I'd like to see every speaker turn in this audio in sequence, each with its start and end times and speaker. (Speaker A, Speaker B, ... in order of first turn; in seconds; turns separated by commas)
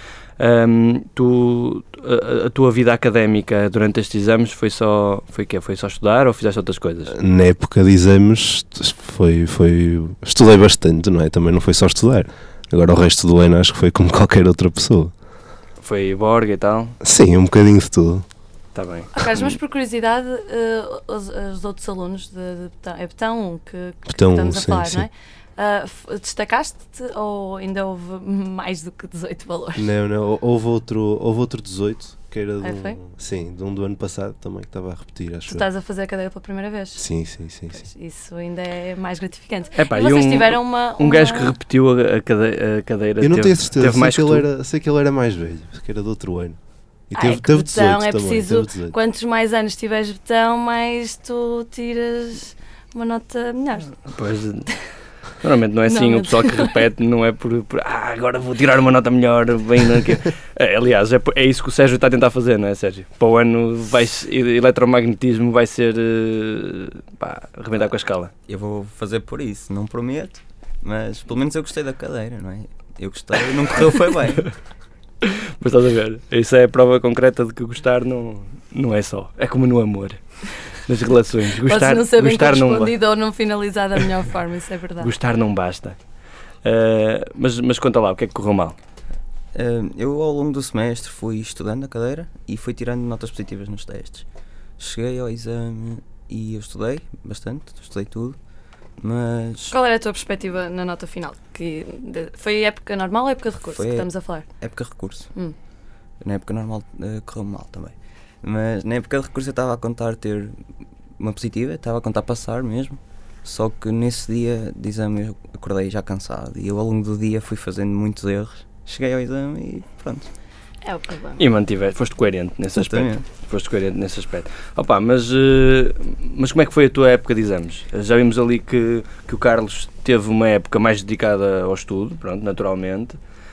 Speaker A: 0.4-7.2, Speaker B: 7.1-15.1, Speaker A: 15.8-17.0, Speaker B: 17.0-18.2, Speaker A: 18.8-19.6, Speaker C: 19.1-29.9, Speaker B: 24.1-25.0, Speaker B: 29.8-35.7, Speaker C: 32.6-33.0, Speaker C: 35.5-37.0, Speaker B: 37.0-37.8, Speaker C: 37.7-41.6, Speaker A: 39.8-44.5, Speaker B: 43.2-46.6, Speaker B: 47.1-49.0, Speaker C: 47.1-54.0, Speaker A: 54.1-54.7, Speaker A: 55.4-68.3, Speaker C: 55.9-56.8, Speaker D: 68.5-74.5, Speaker A: 75.2-80.2, Speaker A: 80.9-83.0, Speaker C: 81.7-85.1, Speaker A: 85.0-86.0, Speaker A: 86.6-88.8, Speaker D: 89.5-94.3, Speaker D: 94.8-98.4, Speaker D: 99.0-99.7, Speaker C: 99.7-104.5, Speaker D: 103.7-105.3, Speaker D: 106.2-110.6, Speaker D: 111.2-120.3, Speaker C: 120.8-121.4, Speaker A: 121.4-133.2, Speaker D: 122.7-123.2